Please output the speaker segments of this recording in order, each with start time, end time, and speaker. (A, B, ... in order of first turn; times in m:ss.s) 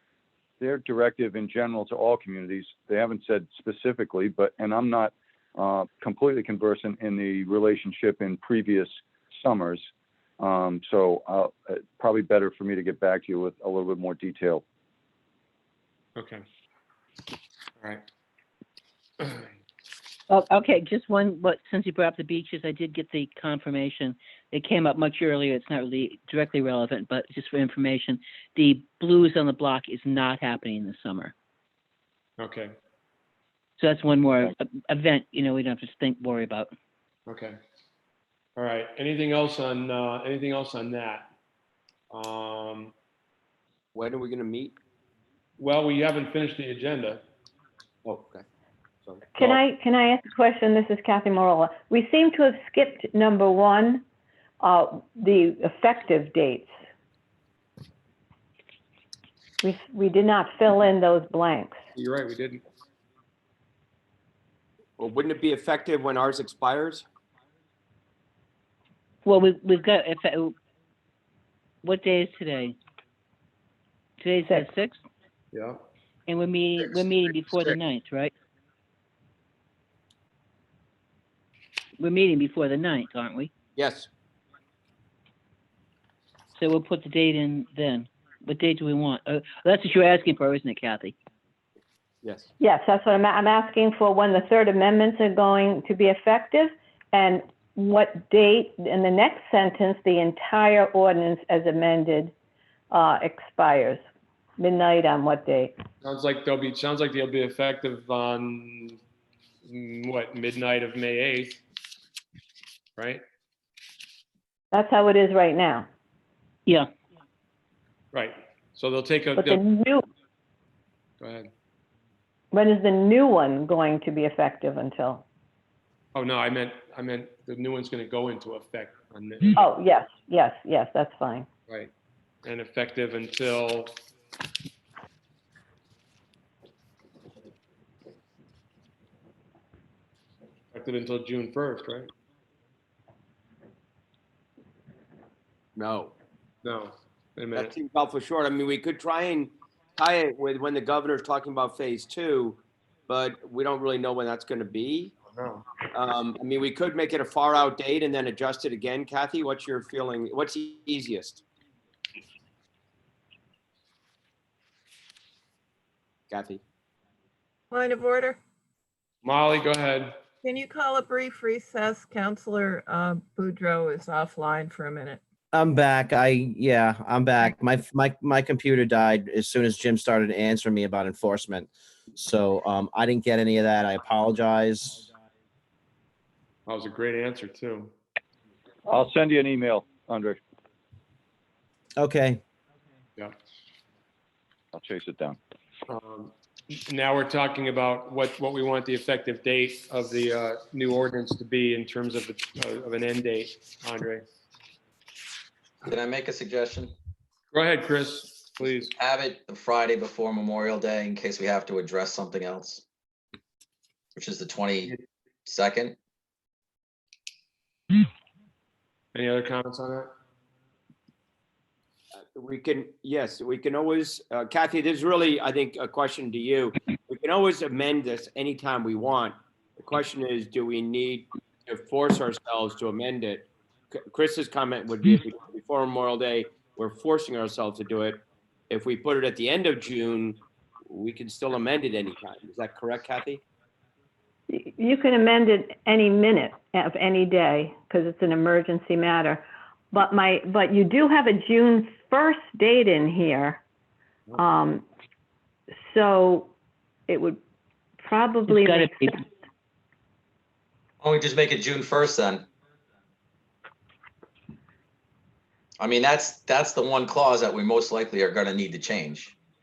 0:00.6-0:09.9 A
0:10.4-0:14.6 A
0:16.2-0:16.4 B
0:19.2-0:19.5 B
0:20.3-0:31.3 C
0:32.4-0:32.7 B
0:33.8-0:36.7 C
0:37.3-0:37.6 B
0:38.6-0:41.3 B
0:42.1-0:42.9 B
0:44.0-0:44.7 D
0:45.6-0:47.2 B
0:48.0-0:48.4 D
0:49.3-0:54.0 E
0:54.6-0:56.7 E
0:59.6-1:01.8 E
1:01.9-1:02.6 B
1:05.0-1:07.0 D
1:09.2-1:10.6 C
1:11.8-1:12.8 C
1:14.2-1:15.0 C
1:15.5-1:15.8 B
1:16.3-1:18.3 C
1:22.0-1:23.5 C
1:23.8-1:24.1 D
1:26.5-1:31.1 C
1:32.2-1:32.5 D
1:32.6-1:42.3 E
1:42.9-1:44.0 E
1:44.6-1:45.8 E
1:46.0-1:49.0 B
1:49.6-1:51.6 B
1:53.0-1:53.2 B
1:54.7-1:55.9 E
1:56.6-1:56.9 C
1:58.1-1:59.6 B
1:59.4-2:00.0 E
2:01.2-2:01.5 B
2:02.5-2:05.2 E
2:06.1-2:09.6 B
2:09.6-2:11.5 E
2:12.4-2:14.0 B
2:20.7-2:22.1 B
2:25.8-2:26.1 F
2:26.6-2:27.7 B
2:27.6-2:35.1 D
2:35.3-2:35.7 B
2:35.9-2:41.4 D
2:46.3-2:46.6 D
2:47.7-2:48.4 G
2:49.2-2:50.2 B
2:50.4-2:55.2 G
2:55.5-3:05.1 F
3:06.7-3:07.9 B
3:08.9-3:10.4 A
3:12.0-3:12.4 F
3:14.7-3:15.4 A
3:15.9-3:16.3 B
3:16.9-3:24.2 B
3:25.8-3:26.9 H
3:27.5-3:28.9 B
3:29.0-3:32.8 H
3:34.2-3:34.9 H
3:35.4-3:36.0 H
3:39.1-3:40.1 B
3:42.2-4:03.4 D
4:04.5-4:13.6 E
4:14.3-4:14.9 E
4:15.7-4:16.5 E
4:17.1-4:17.4 E
4:18.0-4:19.2 E
4:18.5-4:19.2 C
4:21.0-4:22.5 H
4:25.8-4:29.3 H